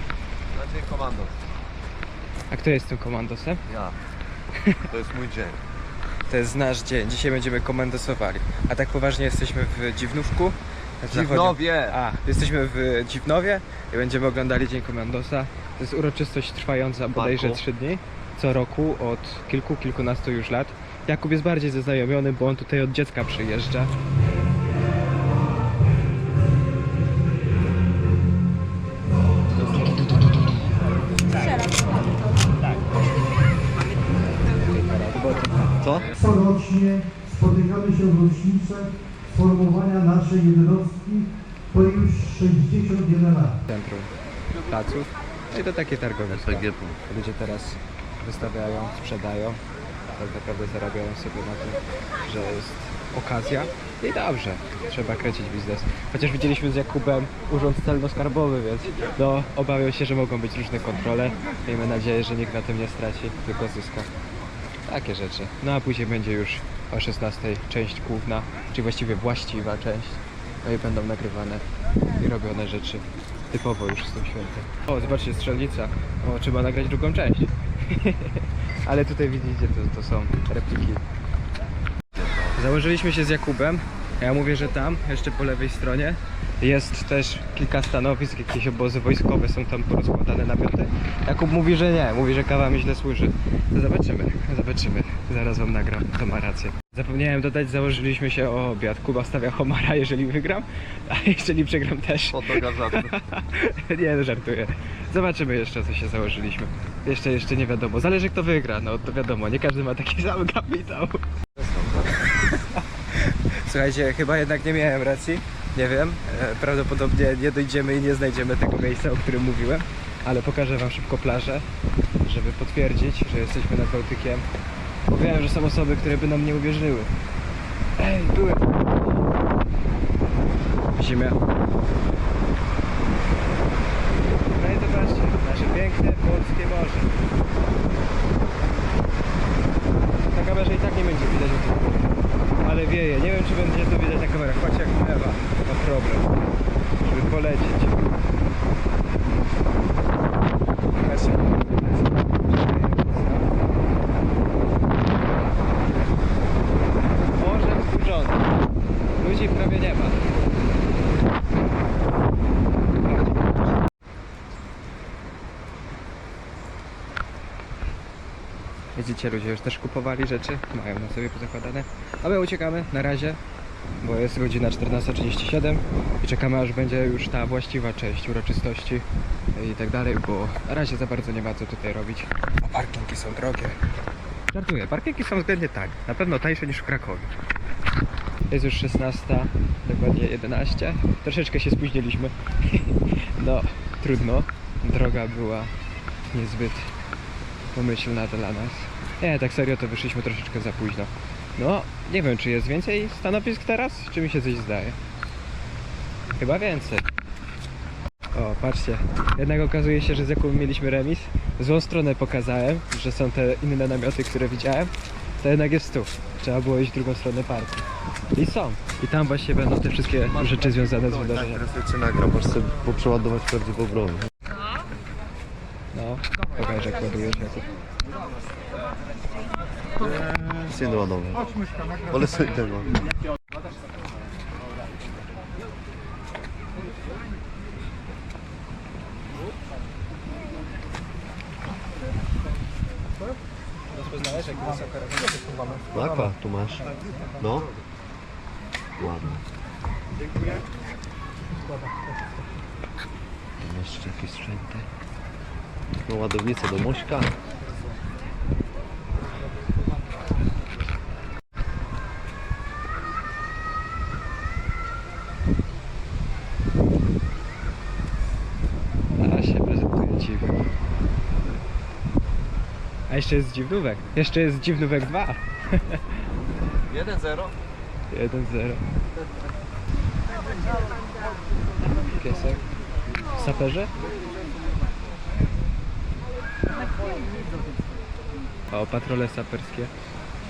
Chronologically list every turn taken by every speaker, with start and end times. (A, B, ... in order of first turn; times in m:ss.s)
0:00.5-0:01.3 A
0:02.5-0:03.6 B
0:03.7-0:04.0 A
0:04.9-0:05.6 A
0:06.3-0:23.9 B
0:11.1-0:12.0 A
0:17.1-0:17.6 A
0:34.6-0:35.7 B
0:35.8-0:36.1 A
0:36.2-0:43.5 C
0:43.7-0:44.1 B
0:44.7-0:49.6 B
0:46.3-0:47.0 A
0:50.1-1:04.1 B
1:04.9-1:11.6 B
1:12.2-1:21.0 B
1:22.1-1:22.6 A
1:22.5-1:51.2 B
1:42.3-1:43.2 A
1:51.6-1:52.1 A
1:52.1-2:01.6 B
2:02.2-2:04.4 B
2:05.1-2:07.1 B
2:08.0-2:08.6 B
2:11.0-2:11.4 B
2:14.5-2:17.2 B
2:20.2-2:26.3 B
2:27.0-2:28.0 B
2:30.9-2:33.5 B
2:37.3-2:38.4 B
2:39.2-2:40.2 B
2:43.0-2:43.7 B
2:48.9-2:53.4 B
2:54.0-3:03.8 B
3:04.5-3:07.3 B
3:08.5-3:15.7 B
3:16.3-3:16.9 B
3:17.7-3:25.0 B
3:26.3-3:27.0 B
3:28.3-3:41.6 B
3:40.3-3:44.3 A
3:45.9-3:47.7 B
3:50.6-3:51.4 A
3:52.1-3:53.1 A
4:03.9-4:05.6 B
4:05.9-4:07.7 A
4:09.0-4:09.4 A
4:13.6-4:14.8 A
4:16.0-4:17.3 A
4:29.2-4:30.7 B
4:33.1-4:36.2 B
4:36.9-4:37.5 A
4:38.1-4:38.8 B
4:42.1-4:42.6 B
4:43.3-4:43.9 B
4:48.7-4:49.9 B